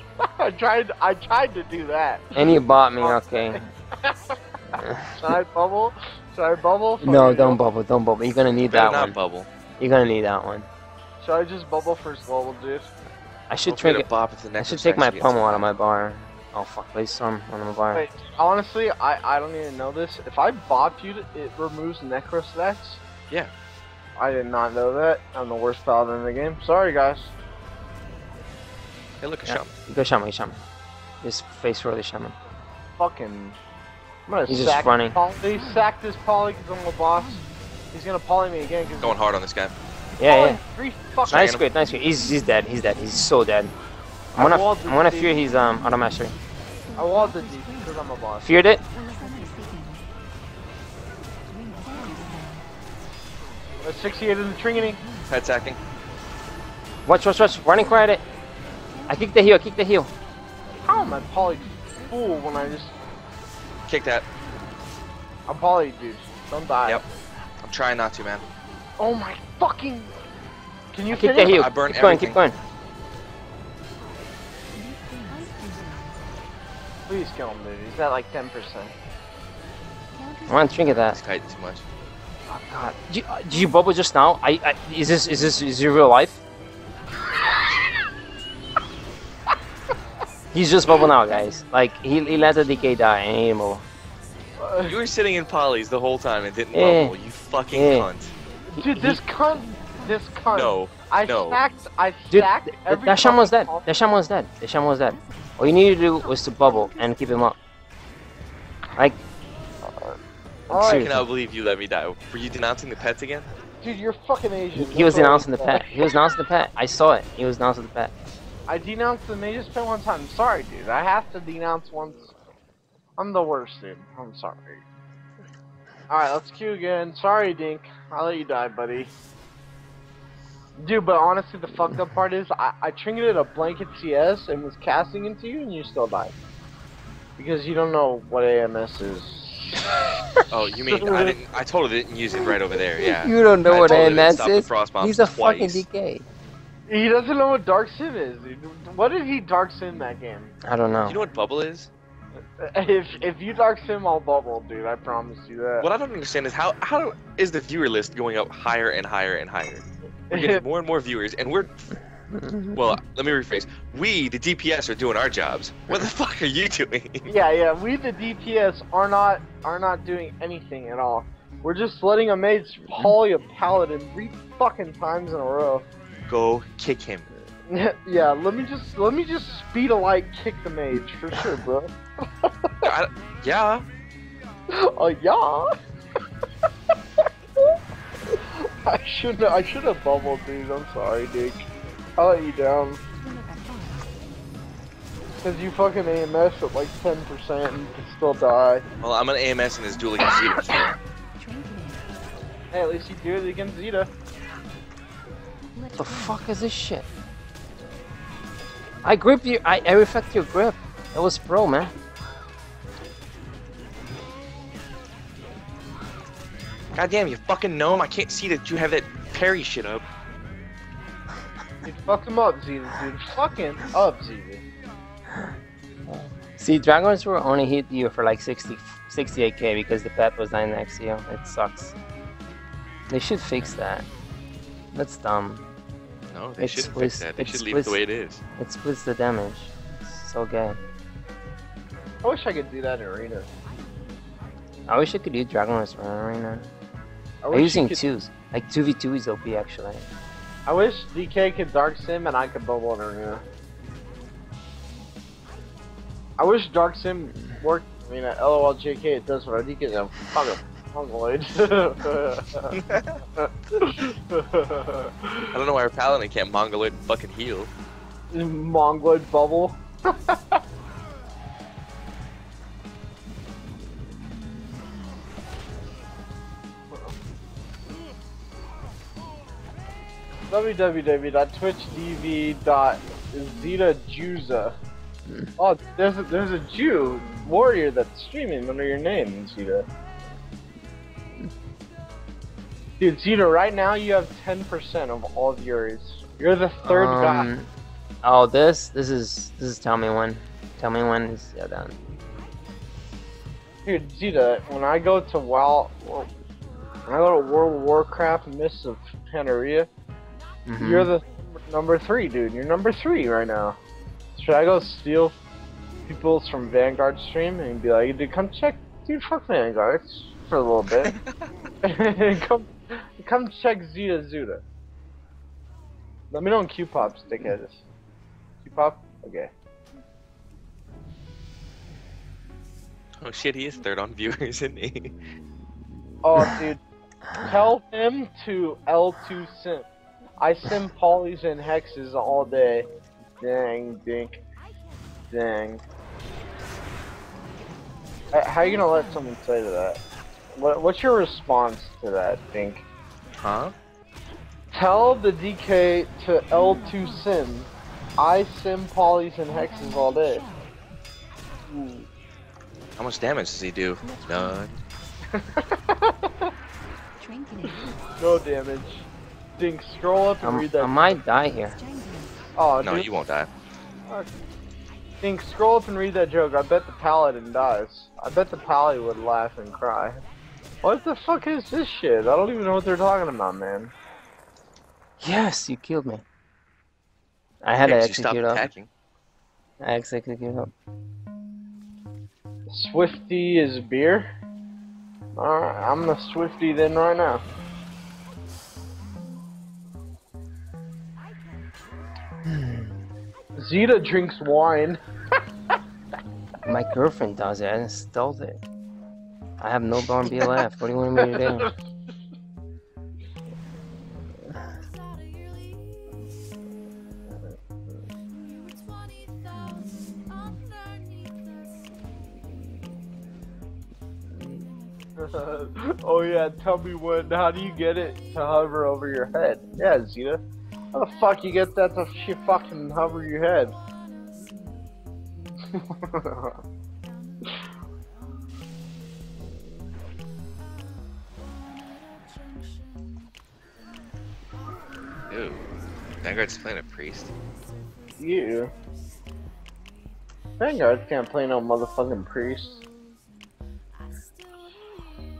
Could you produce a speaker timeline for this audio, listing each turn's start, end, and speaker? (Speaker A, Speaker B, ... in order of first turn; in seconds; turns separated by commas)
Speaker A: 0.2-7.6, Speaker B: 2.4-3.6, Speaker B: 4.8-5.2, Speaker B: 7.0-9.2, Speaker C: 8.7-9.5, Speaker B: 9.8-10.7, Speaker A: 11.2-12.9, Speaker B: 13.5-14.1, Speaker C: 13.7-15.6, Speaker B: 14.6-18.0, Speaker A: 17.9-23.0, Speaker A: 24.2-27.3, Speaker C: 29.2-29.7, Speaker B: 29.5-30.6, Speaker B: 31.2-32.4, Speaker A: 33.0-33.6, Speaker A: 34.3-39.2, Speaker B: 34.5-35.2, Speaker C: 39.0-39.7, Speaker B: 40.2-40.6, Speaker A: 40.2-41.5, Speaker C: 41.2-41.6, Speaker B: 41.3-43.7, Speaker A: 44.3-45.4, Speaker B: 44.4-46.3, Speaker A: 47.0-48.5, Speaker B: 48.4-48.8, Speaker A: 53.8-55.0, Speaker C: 55.3-55.8, Speaker B: 57.0-58.2, Speaker B: 59.1-60.1, Speaker A: 60.8-62.9, Speaker C: 63.9-64.3, Speaker A: 65.5-67.0, Speaker C: 67.6-68.4, Speaker A: 69.0-70.1, Speaker A: 70.9-71.6, Speaker B: 71.1-72.5, Speaker C: 71.5-72.4, Speaker A: 77.1-78.9, Speaker B: 80.5-81.2, Speaker C: 81.1-81.8, Speaker B: 82.5-86.4, Speaker B: 90.5-93.8, Speaker A: 94.6-95.0, Speaker C: 94.8-98.3, Speaker B: 96.7-97.1, Speaker B: 97.7-98.1, Speaker B: 98.7-99.2, Speaker A: 98.8-103.9, Speaker C: 100.5-101.6, Speaker B: 102.3-107.6, Speaker A: 109.8-110.2, Speaker A: 110.7-111.1, Speaker B: 110.7-111.2, Speaker C: 110.8-113.5, Speaker A: 113.8-116.1, Speaker B: 114.8-118.1, Speaker A: 118.7-122.3, Speaker A: 123.2-124.8, Speaker A: 126.1-129.1, Speaker A: 130.8-136.3, Speaker A: 137.4-141.3, Speaker C: 140.5-145.8, Speaker B: 143.0-146.2, Speaker A: 143.8-144.2, Speaker A: 146.9-150.5, Speaker B: 150.6-151.2, Speaker C: 151.1-151.9, Speaker A: 152.6-155.9, Speaker C: 155.8-161.9, Speaker A: 160.3-160.6, Speaker B: 162.3-162.7, Speaker C: 162.7-167.3, Speaker A: 167.3-175.8, Speaker C: 176.2-177.3, Speaker A: 177.7-182.7, Speaker C: 182.8-183.8, Speaker A: 184.7-185.7, Speaker A: 187.6-193.0, Speaker A: 195.4-198.8, Speaker C: 199.0-200.9, Speaker A: 202.7-204.1, Speaker B: 205.9-207.1, Speaker B: 209.0-211.9, Speaker C: 216.9-220.1, Speaker A: 221.8-224.6, Speaker B: 226.1-231.9, Speaker B: 233.1-234.1, Speaker B: 234.9-235.7, Speaker C: 236.3-238.4, Speaker B: 236.6-238.0, Speaker B: 238.6-240.8, Speaker A: 242.2-243.5, Speaker B: 244.9-246.7, Speaker A: 247.4-248.0, Speaker B: 247.5-250.1, Speaker A: 250.7-253.4, Speaker A: 256.4-262.8, Speaker C: 262.7-263.2, Speaker A: 263.4-265.5, Speaker C: 265.5-267.7, Speaker A: 268.3-270.6, Speaker A: 280.5-284.7, Speaker A: 285.6-289.9, Speaker A: 293.0-297.5, Speaker B: 296.8-297.7, Speaker B: 298.2-301.9, Speaker A: 303.8-306.3, Speaker A: 307.1-309.9, Speaker B: 310.6-311.1, Speaker A: 310.8-313.8, Speaker A: 314.4-315.4, Speaker A: 316.1-321.1, Speaker A: 321.8-324.6, Speaker A: 326.3-327.8, Speaker A: 328.6-329.5, Speaker C: 333.2-335.1, Speaker A: 336.2-336.8, Speaker A: 337.4-339.9, Speaker A: 340.4-342.9, Speaker A: 343.4-344.4, Speaker A: 345.3-345.8, Speaker A: 348.3-350.0, Speaker A: 350.6-352.8, Speaker C: 353.4-353.7, Speaker A: 354.7-360.5, Speaker A: 361.7-362.1, Speaker C: 363.0-364.8, Speaker A: 365.3-366.5, Speaker A: 367.6-369.1, Speaker A: 369.6-371.2, Speaker B: 370.4-371.8, Speaker A: 372.6-373.1, Speaker C: 372.8-373.5, Speaker A: 374.1-374.4, Speaker A: 375.2-380.2, Speaker A: 380.8-383.9, Speaker B: 385.2-386.2, Speaker B: 387.6-388.6, Speaker C: 387.8-388.9, Speaker B: 389.8-390.7, Speaker A: 392.7-394.3, Speaker A: 395.4-397.4, Speaker B: 402.5-402.9, Speaker A: 403.6-405.0, Speaker B: 406.6-408.6, Speaker B: 409.6-411.7, Speaker A: 411.3-411.6, Speaker A: 425.2-430.4, Speaker A: 430.9-433.8, Speaker A: 435.7-436.6, Speaker C: 445.3-445.7, Speaker C: 446.2-447.3, Speaker A: 448.2-448.7, Speaker A: 450.6-452.8